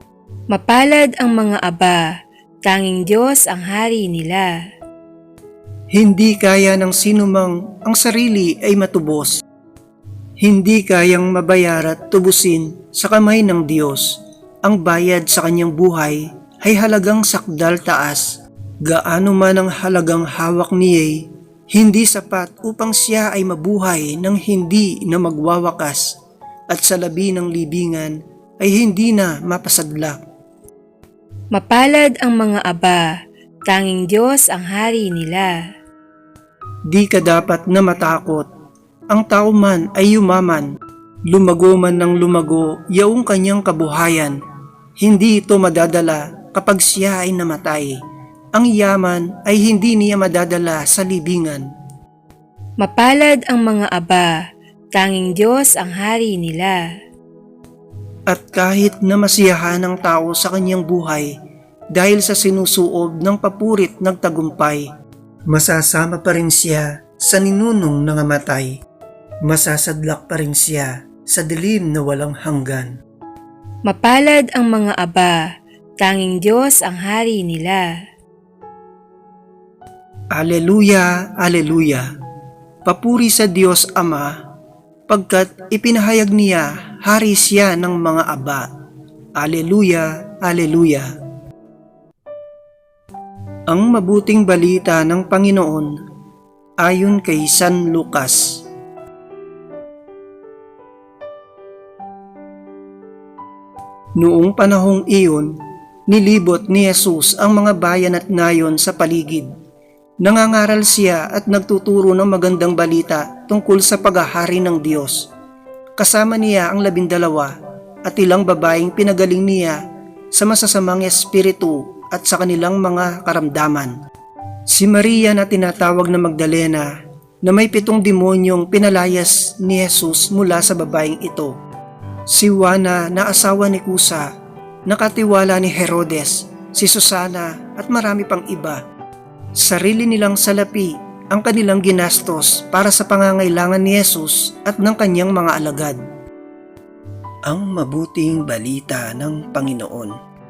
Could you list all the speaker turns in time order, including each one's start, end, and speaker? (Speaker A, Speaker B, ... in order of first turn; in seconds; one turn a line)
Speaker A: 0.5-4.7
Speaker B: 5.9-9.4
Speaker B: 10.4-26.2
Speaker B: 26.7-30.2
Speaker A: 31.5-35.7
Speaker B: 36.9-38.5
Speaker B: 39.1-40.7
Speaker B: 41.3-44.4
Speaker B: 45.0-48.0
Speaker B: 48.5-51.7
Speaker A: 52.8-56.9
Speaker B: 58.3-61.3
Speaker B: 61.9-64.9
Speaker B: 65.5-68.8
Speaker B: 69.4-73.0
Speaker A: 73.8-78.0
Speaker B: 80.3-82.1
Speaker B: 82.8-84.3
Speaker B: 85.1-88.7
Speaker B: 89.4-91.1
Speaker B: 93.7-95.9
Speaker B: 96.8-98.6
Speaker B: 104.2-105.5
Speaker B: 106.1-109.5
Speaker B: 110.2-115.3
Speaker B: 116.0-119.8
Speaker B: 120.3-124.0
Speaker B: 124.7-131.5
Speaker B: 132.3-134.3
Speaker B: 134.9-138.8
Speaker B: 139.6-146.0
Speaker B: 147.5-150.1